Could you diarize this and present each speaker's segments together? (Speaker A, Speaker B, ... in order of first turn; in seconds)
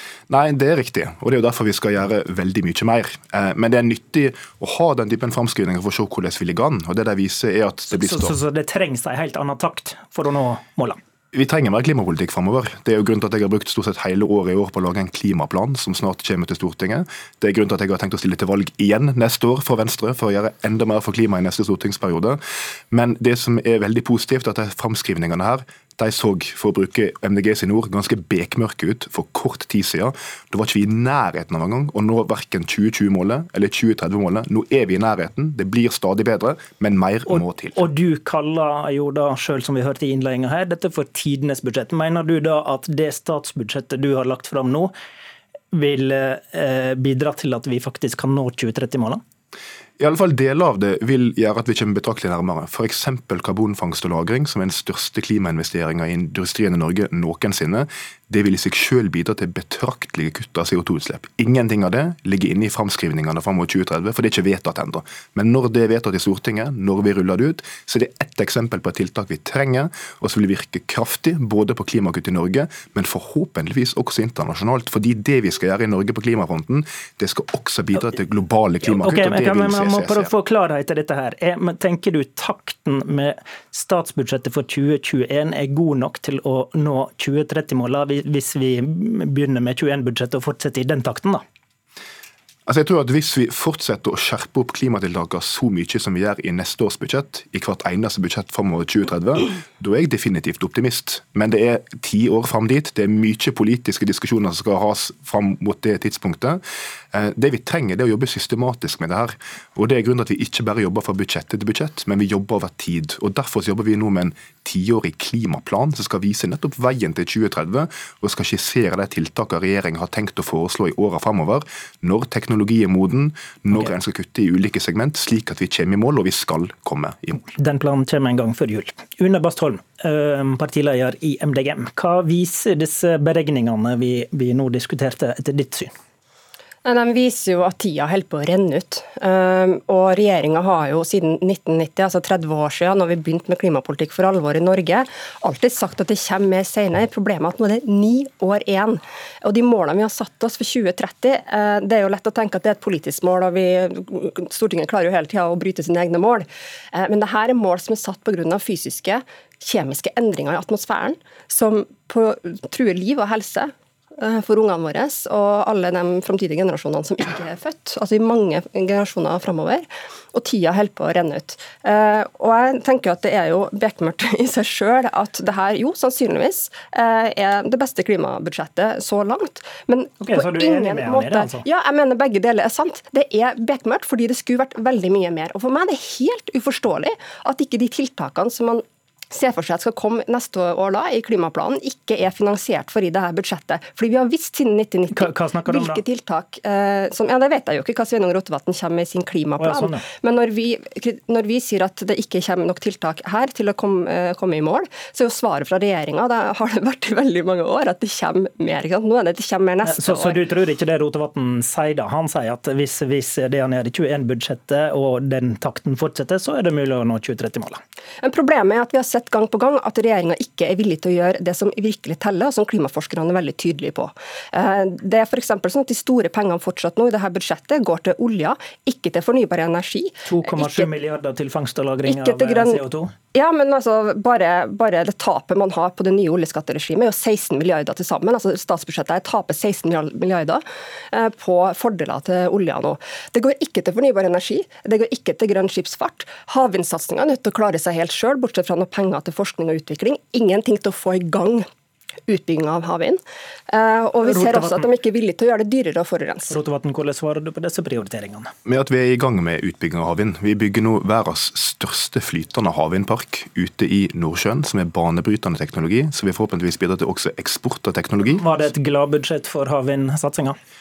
Speaker A: 0.3-8.4, 11.3-22.4, 22.9-37.8, 50.0-80.3, 92.7-106.6, 107.1-127.4, 258.7-268.4
Speaker B: 7.9-11.0, 37.3-44.9, 45.7-49.2, 78.9-91.4, 127.5-135.9, 180.2-181.6, 195.1-196.0, 199.6-200.1, 209.8-217.8, 230.2-233.1, 254.2-254.9, 256.5-258.5, 268.4-270.6
Speaker C: 136.8-210.4, 218.2-230.9, 232.1-232.8, 233.3-251.7, 252.3-256.6